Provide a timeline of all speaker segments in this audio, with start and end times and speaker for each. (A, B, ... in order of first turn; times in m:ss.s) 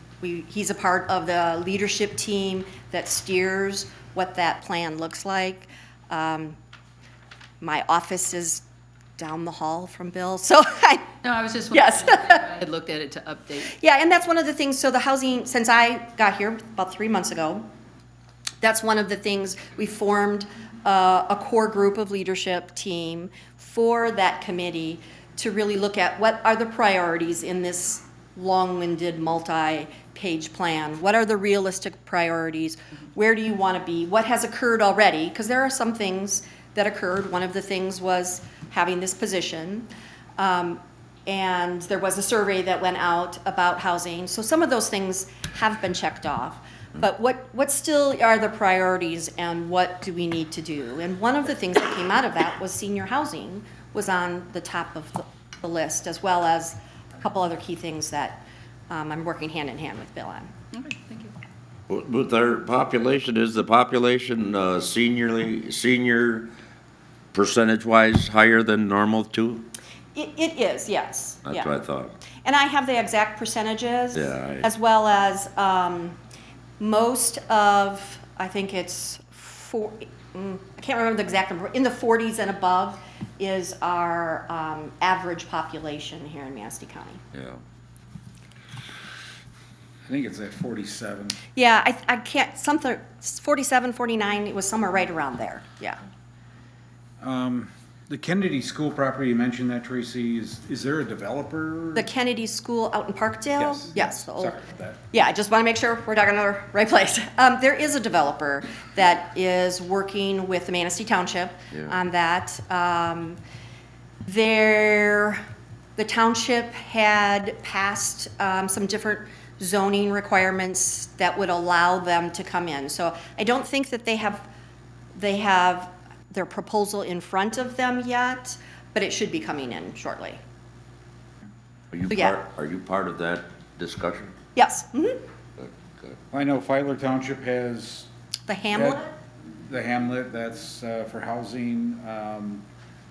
0:00.2-0:06.6 A
0:07.6-0:08.6 A
0:09.2-0:11.2 A
0:11.2-0:13.8 B
0:11.7-0:12.4 A
0:13.7-0:17.7 A
0:18.6-1:00.5 A
1:00.7-1:01.4 B
1:01.9-1:06.5 C
1:07.3-1:09.7 C
1:10.2-1:11.7 A
1:11.4-1:12.2 C
1:12.3-1:16.2 A
1:14.1-1:14.7 C
1:16.8-1:27.2 A
1:27.3-1:27.6 C
1:30.1-1:31.4 D
1:31.6-1:36.0 A
1:37.2-1:42.1 D
1:42.0-1:44.6 A
1:43.6-1:45.0 D
1:45.1-1:53.4 A
1:54.3-1:55.4 A
1:56.0-2:04.5 A
2:05.2-2:10.4 A
2:11.9-2:14.3 C
2:12.1-2:12.4 A
2:14.6-2:15.2 A
2:15.6-2:16.2 C
2:16.3-2:18.1 D
2:18.5-2:19.1 A
2:18.7-2:19.0 D
2:19.6-2:22.7 D